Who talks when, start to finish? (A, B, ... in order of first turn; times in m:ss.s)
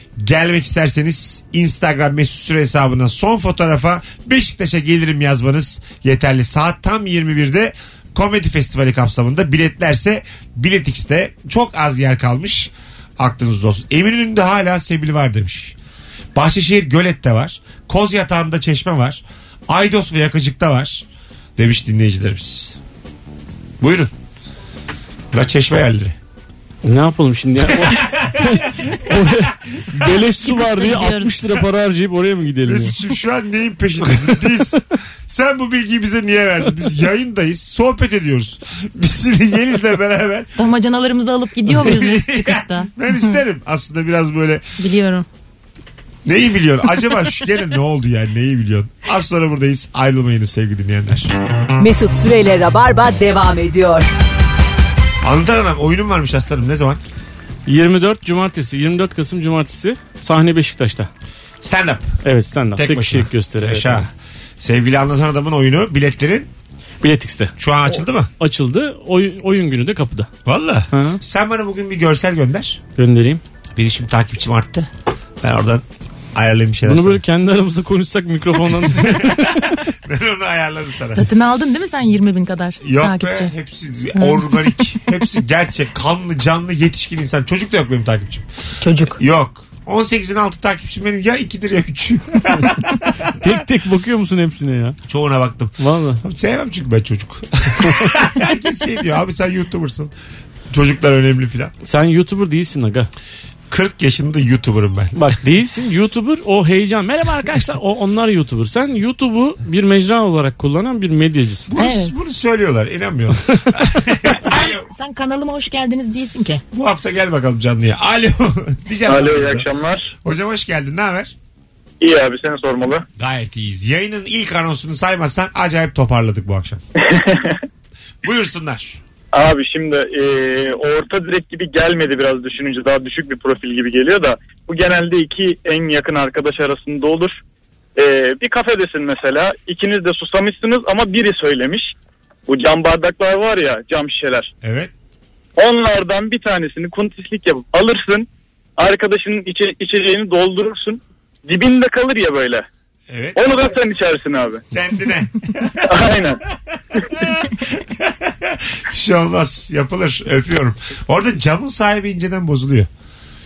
0:00.2-0:15.8 A
0:16.4-0:21.0 A
0:21.6-0:22.8 A
0:23.8-0:24.1 A
0:25.3-0:26.2 A
0:26.8-0:33.0 B
0:28.0-0:28.5 A
0:30.4-0:31.4 C
0:32.7-0:40.5 A
0:34.1-0:34.6 B
0:40.6-0:43.4 C
0:41.7-0:44.6 A
0:44.8-0:45.3 C
0:46.2-0:51.4 A
0:51.8-0:54.1 D
0:55.2-0:57.0 A
0:57.7-1:01.1 B
1:01.6-1:02.1 A
1:02.2-1:04.1 B
1:02.8-1:06.5 A
1:07.0-1:10.3 B
1:07.6-1:08.3 A
1:10.5-1:12.8 A
1:10.9-1:11.2 B
1:13.0-1:13.4 B
1:13.7-1:14.9 A
1:15.4-1:17.2 A
1:16.8-1:19.8 B
1:18.9-1:21.3 A
1:21.2-1:23.5 C
1:22.8-1:28.5 A
1:24.2-1:25.0 C
1:28.8-1:29.2 C
1:29.0-1:33.6 A
1:33.4-1:35.0 B
1:35.1-1:40.1 A
1:35.8-1:36.2 B
1:40.7-1:41.7 A
1:41.8-1:43.1 B
1:43.7-1:45.3 A
1:45.2-1:51.7 B
1:51.7-1:54.9 A
1:51.8-1:52.1 C
1:54.3-1:56.6 C
1:56.7-1:59.7 A
1:59.1-2:00.1 E
2:00.2-2:01.3 A
2:02.0-2:03.0 E
2:03.2-2:06.8 A
2:08.2-2:09.0 A
2:09.3-2:17.4 E
2:18.0-2:21.9 E
2:22.5-2:24.5 E
2:24.6-2:24.9 A
2:25.6-2:32.7 E
2:33.1-2:33.6 A
2:33.4-2:34.6 E
2:34.7-2:36.1 A
2:35.9-2:36.4 E
2:37.1-2:42.9 A